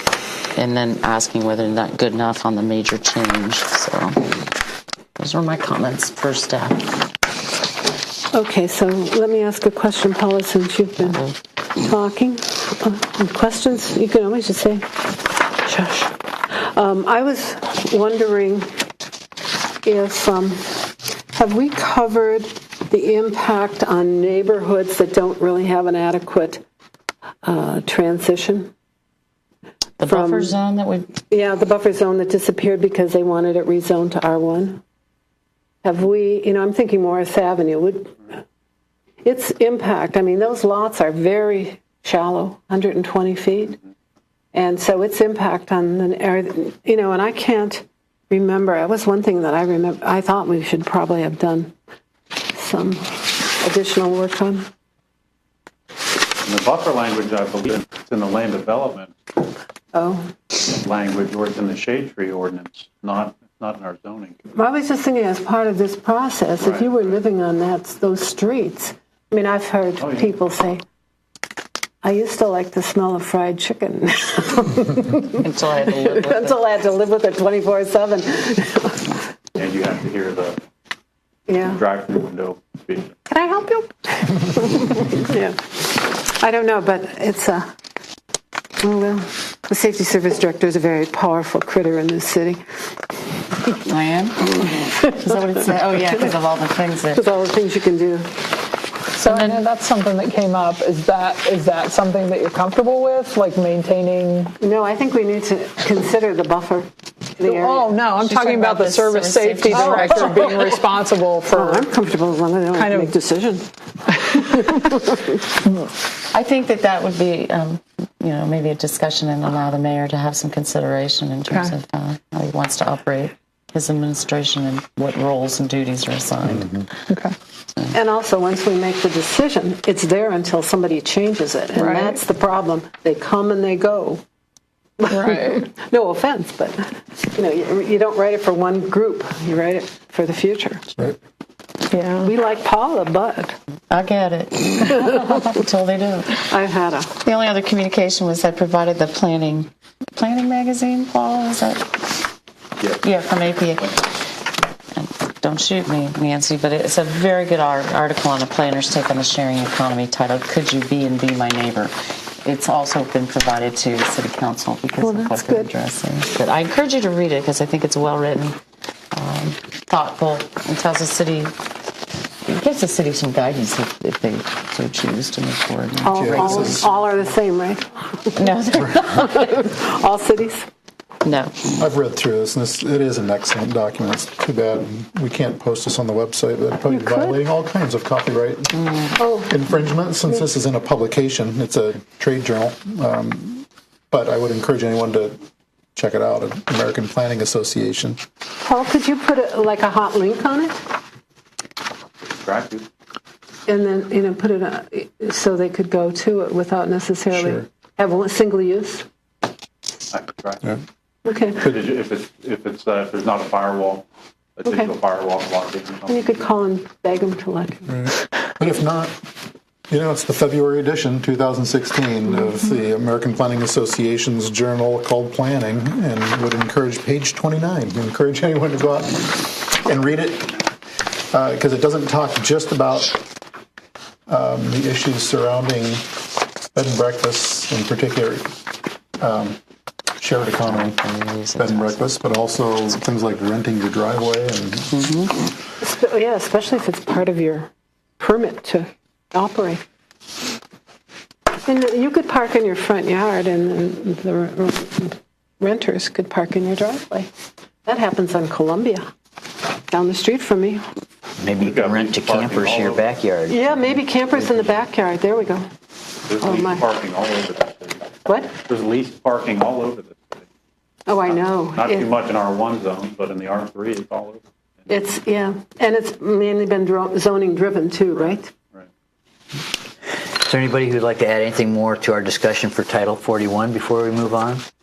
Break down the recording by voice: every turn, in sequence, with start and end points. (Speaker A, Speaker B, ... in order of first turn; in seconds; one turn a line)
Speaker A: 0.6-4.5
Speaker A: 5.2-6.9
Speaker B: 8.3-11.2
Speaker A: 11.0-11.3
Speaker B: 11.8-18.7
Speaker B: 19.8-26.6
Speaker B: 27.4-28.7
Speaker A: 30.0-31.2
Speaker B: 30.1-30.5
Speaker B: 31.3-34.8
Speaker B: 35.8-38.4
Speaker B: 39.2-43.8
Speaker B: 44.5-51.7
Speaker B: 52.5-54.7
Speaker C: 56.4-59.1
Speaker B: 59.9-60.3
Speaker C: 60.7-64.4
Speaker B: 64.5-70.8
Speaker C: 66.6-67.2
Speaker C: 70.0-70.3
Speaker B: 72.0-79.2
Speaker A: 75.4-76.7
Speaker C: 79.5-80.6
Speaker B: 81.5-81.8
Speaker C: 81.6-83.2
Speaker B: 83.3-87.7
Speaker B: 88.8-92.6
Speaker A: 93.8-97.2
Speaker B: 97.1-98.3
Speaker D: 99.1-104.5
Speaker A: 99.3-99.6
Speaker B: 104.6-108.0
Speaker D: 107.4-111.9
Speaker A: 108.2-110.5
Speaker B: 109.7-110.8
Speaker B: 111.5-115.4
Speaker D: 112.7-113.1
Speaker A: 116.3-126.8
Speaker D: 121.5-121.8
Speaker B: 127.9-134.2
Speaker D: 131.8-132.2
Speaker B: 135.0-140.9
Speaker D: 135.2-135.6
Speaker D: 141.9-142.3
Speaker B: 142.2-143.6
Speaker A: 143.9-146.5
Speaker B: 146.5-147.2
Speaker A: 147.2-152.0
Speaker A: 153.0-154.2
Speaker A: 154.9-168.6
Speaker B: 165.0-165.7
Speaker A: 169.1-171.5
Speaker A: 172.4-176.9
Speaker B: 176.0-180.7
Speaker E: 176.1-176.9
Speaker A: 178.4-179.5
Speaker A: 181.2-181.7
Speaker E: 181.8-195.4
Speaker B: 186.9-187.4
Speaker B: 189.2-189.5
Speaker E: 195.9-198.2
Speaker B: 198.6-200.8
Speaker C: 202.4-202.9
Speaker B: 203.7-209.1
Speaker E: 207.3-207.7
Speaker C: 210.1-210.7
Speaker B: 211.2-211.6
Speaker C: 211.6-214.1
Speaker C: 214.6-216.4
Speaker B: 214.7-214.9
Speaker B: 216.1-218.0
Speaker E: 217.9-219.2
Speaker E: 219.9-230.7
Speaker E: 231.3-233.2
Speaker E: 234.3-238.6
Speaker E: 239.2-239.6
Speaker E: 240.2-241.0
Speaker A: 240.5-242.1
Speaker E: 241.6-245.0
Speaker A: 244.9-245.3
Speaker B: 245.8-249.8
Speaker B: 251.7-257.3
Speaker B: 257.9-259.1
Speaker B: 259.9-260.8
Speaker F: 261.4-264.0
Speaker C: 261.6-263.0
Speaker B: 263.5-265.7
Speaker C: 266.3-268.1
Speaker B: 266.4-266.9
Speaker B: 268.3-268.6
Speaker C: 268.6-270.5
Speaker B: 271.1-272.2
Speaker C: 271.3-274.4
Speaker B: 274.9-278.5
Speaker C: 278.1-278.9
Speaker F: 280.3-284.6